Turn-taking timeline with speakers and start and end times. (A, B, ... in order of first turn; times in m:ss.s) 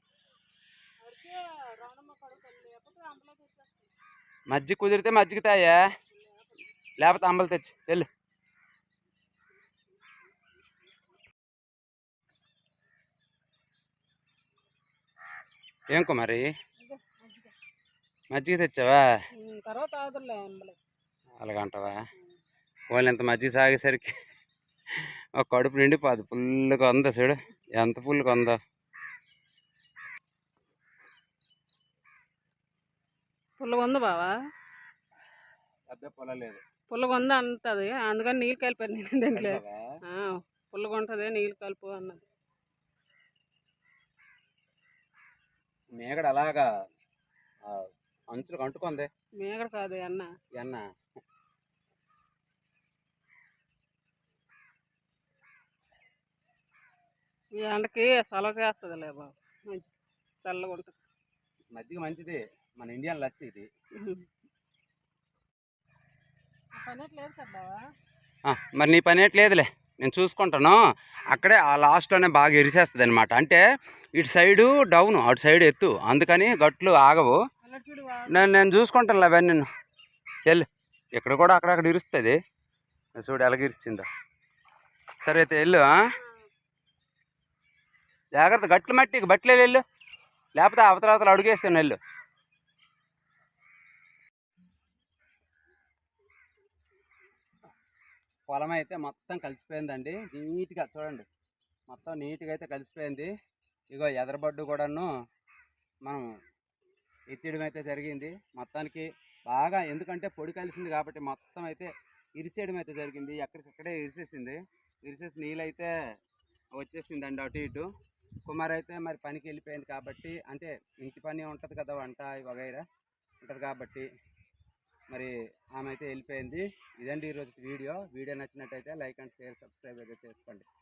0:01.0-0:03.9 A
0:04.5-0:05.8 B
0:06.1-0:06.6 A
0:07.0-0:08.1 B
0:15.9-0:16.5 B
0:16.8-0:17.5 A
0:18.3-0:19.0 B
0:19.4-0:20.8 A
0:21.4-0:22.0 B
0:22.9-0:24.1 B
0:25.4-0:28.6 B
0:33.6-0:34.3 A
0:35.9-0:36.6 B
0:36.9-0:42.2 A
0:39.3-0:39.8 B
0:46.0-0:46.7 B
0:47.7-0:49.1 B
0:49.4-0:50.3 A
0:50.6-0:50.8 B
0:57.6-0:59.9 A
1:00.4-1:01.0 A
1:01.7-1:03.7 B
1:04.0-1:04.2 A
1:06.8-1:07.8 A
1:08.4-1:10.8 B
1:11.3-1:13.6 B
1:14.2-1:17.4 B
1:17.6-1:18.5 A
1:18.3-1:19.7 B
1:20.5-1:22.4 B
1:23.2-1:24.1 B
1:25.2-1:26.0 B
1:28.4-1:29.8 B
1:30.6-1:32.0 B
1:38.5-1:41.2 B
1:41.9-1:43.3 B
1:43.9-1:45.1 B
1:47.3-1:55.9 B
1:56.7-1:57.9 B
1:58.4-2:02.8 B
2:03.4-2:04.1 B
2:05.1-2:10.7 B